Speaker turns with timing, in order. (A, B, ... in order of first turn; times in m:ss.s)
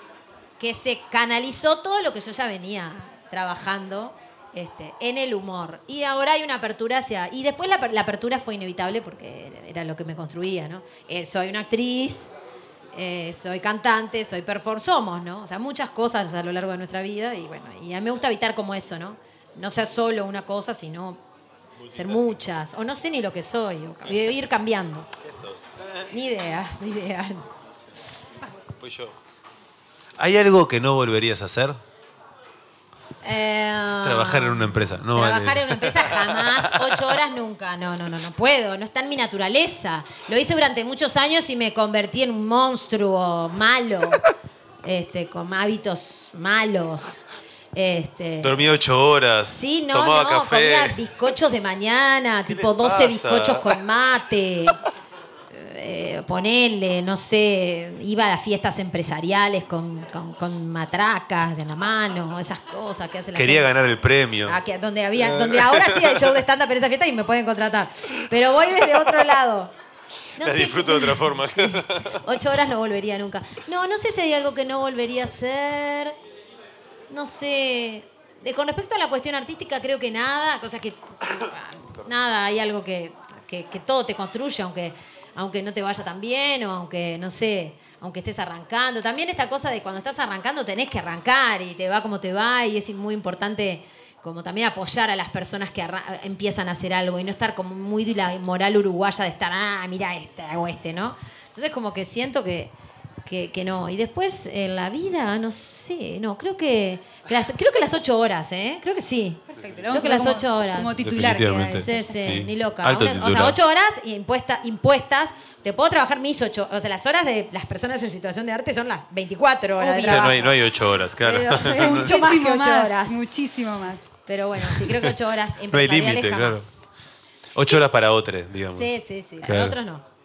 0:00.6-0:12.3 A
0:12.9-0:21.2 A
0:21.8-0:22.4 B
0:21.9-0:25.1 A
0:25.2-0:26.1 B
0:26.1-0:27.5 A
0:28.6-0:29.2 B
0:30.2-0:31.8 B
0:33.2-0:44.2 A
0:34.0-0:37.0 B
0:44.8-0:48.6 A
0:48.4-0:51.0 B
0:49.5-0:54.8 A
0:52.5-0:53.7 B
0:55.5-1:03.7 A
1:03.3-1:04.6 B
1:04.4-1:09.7 A
1:05.2-1:06.4 B
1:10.4-1:16.2 A
1:10.4-1:12.2 B
1:17.1-1:42.7 A
1:43.2-1:51.0 A
1:49.5-1:52.4 C
1:51.0-1:53.6 B
1:51.7-2:00.5 A
1:59.8-2:00.4 C
2:00.0-2:02.2 B
2:01.2-2:03.2 A
2:01.7-2:04.1 C
2:04.3-2:06.8 A
2:04.7-2:05.1 B
2:05.7-2:06.7 B
2:07.5-2:09.8 B
2:08.7-2:10.0 A